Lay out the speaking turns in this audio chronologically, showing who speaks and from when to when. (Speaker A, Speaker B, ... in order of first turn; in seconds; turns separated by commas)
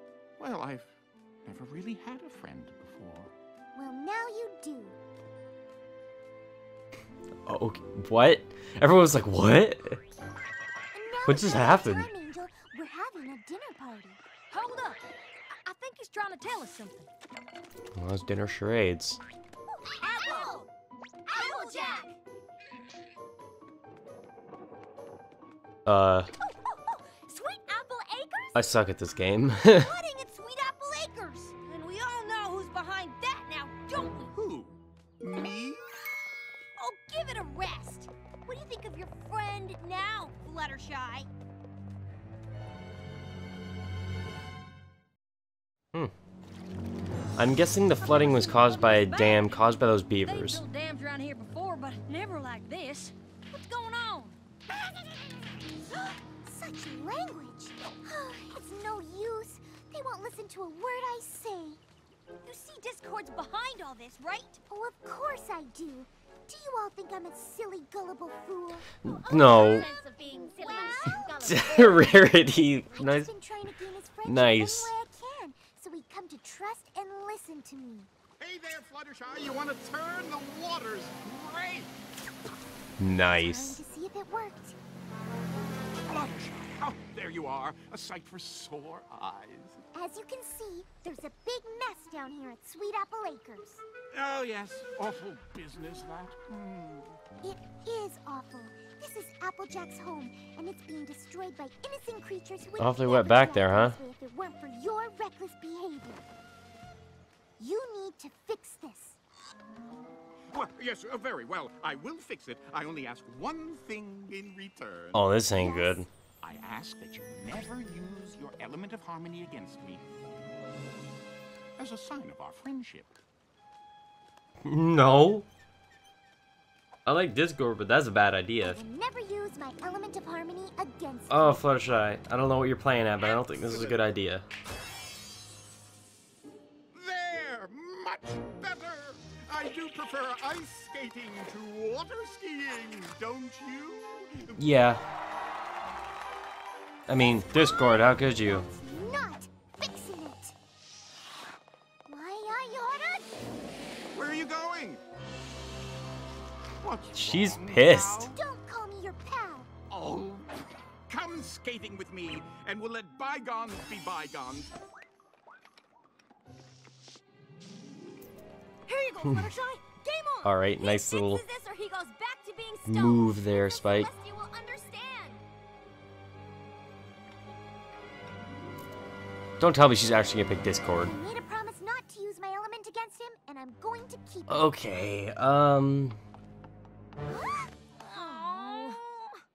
Speaker A: 0.4-3.3, Speaker B: 3.8-5.0, Speaker C: 7.5-10.0, Speaker B: 10.9-14.2, Speaker C: 11.3-12.1, Speaker D: 14.5-15.0, Speaker D: 15.5-17.1, Speaker C: 18.0-19.2, Speaker D: 20.0-20.7, Speaker B: 20.1-20.5, Speaker D: 21.3-22.1, Speaker E: 21.3-22.0, Speaker B: 21.4-22.1, Speaker C: 25.9-26.3, Speaker D: 26.4-28.7, Speaker C: 28.6-29.9, Speaker D: 29.7-34.4, Speaker A: 34.3-36.2, Speaker D: 36.8-41.3, Speaker C: 47.4-50.6, Speaker D: 48.0-54.4, Speaker B: 56.4-61.8, Speaker D: 62.4-64.6, Speaker B: 64.7-78.1, Speaker C: 69.0-69.9, Speaker D: 69.1-72.0, Speaker E: 70.5-72.0, Speaker C: 71.4-73.3, Speaker C: 74.2-74.9, Speaker A: 78.4-82.0, Speaker C: 83.0-83.8, Speaker B: 83.3-84.8, Speaker A: 86.0-89.8, Speaker B: 89.9-93.8, Speaker A: 94.1-97.2, Speaker B: 97.4-106.2, Speaker C: 102.8-104.0, Speaker B: 107.6-109.2, Speaker A: 110.5-115.3, Speaker C: 115.1-116.1, Speaker B: 115.6-116.0, Speaker A: 116.4-120.0, Speaker A: 121.8-123.2, Speaker C: 124.7-125.5, Speaker C: 127.1-128.8, Speaker B: 128.6-131.7, Speaker C: 131.3-134.5, Speaker A: 133.2-134.0, Speaker A: 136.9-144.7, Speaker C: 144.6-145.0, Speaker C: 147.1-148.7, Speaker B: 147.5-150.6, Speaker B: 152.1-153.4, Speaker A: 154.1-155.0, Speaker A: 156.8-158.4, Speaker C: 157.1-158.3, Speaker B: 158.3-159.7, Speaker A: 159.9-164.7, Speaker D: 168.9-170.6, Speaker C: 170.4-171.4, Speaker E: 170.8-175.4, Speaker C: 172.9-174.1, Speaker C: 179.6-181.2, Speaker B: 181.0-184.7, Speaker C: 184.5-186.2, Speaker D: 187.5-189.4